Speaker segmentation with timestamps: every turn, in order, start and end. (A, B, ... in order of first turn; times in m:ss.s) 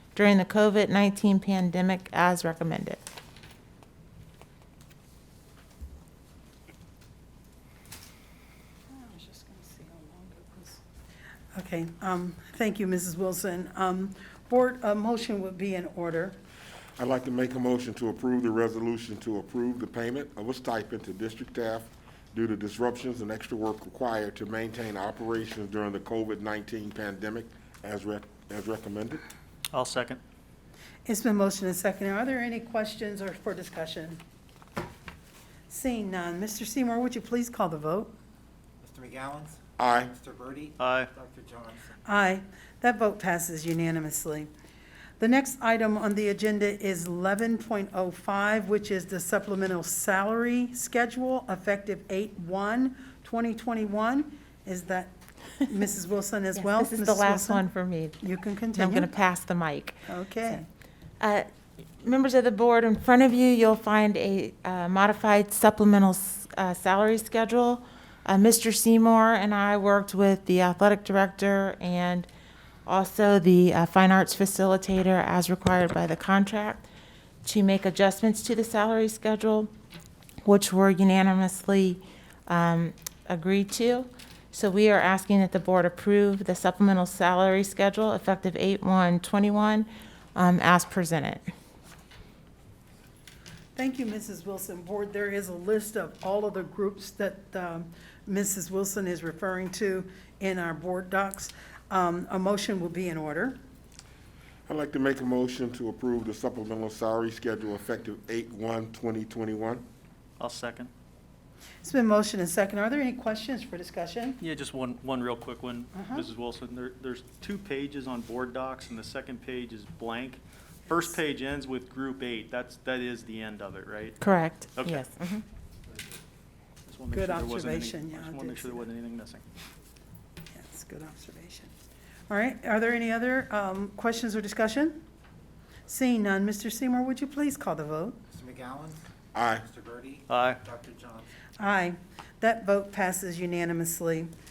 0:00.1-0:03.0 A
0:08.9-0:10.8 B
0:11.5-0:16.4 B
0:17.0-0:29.2 C
0:29.7-0:30.2 D
0:31.0-0:34.2 B
0:35.7-0:38.1 B
0:38.8-0:42.0 E
0:39.8-0:40.1 C
0:40.8-0:41.1 D
0:42.0-0:44.5 B
0:45.2-0:57.6 B
0:56.5-0:58.2 A
0:58.2-0:59.1 B
0:58.7-1:00.0 A
1:00.1-1:00.6 B
1:01.2-1:01.5 A
1:02.0-1:12.3 A
1:12.8-1:16.8 A
1:17.4-1:19.7 A
1:20.4-1:31.4 A
1:33.8-1:43.6 B
1:44.7-1:49.8 C
1:50.4-1:50.9 D
1:51.8-1:54.4 B
1:54.4-2:04.2 D
1:55.9-1:56.2 B
2:04.2-2:05.4 A
2:06.9-2:09.4 D
2:07.1-2:08.8 B
2:10.5-2:11.7 B
2:12.3-2:15.0 B
2:15.9-2:18.2 B
2:18.3-2:21.3 E
2:19.3-2:19.6 C
2:20.3-2:20.6 D
2:21.6-2:24.3 B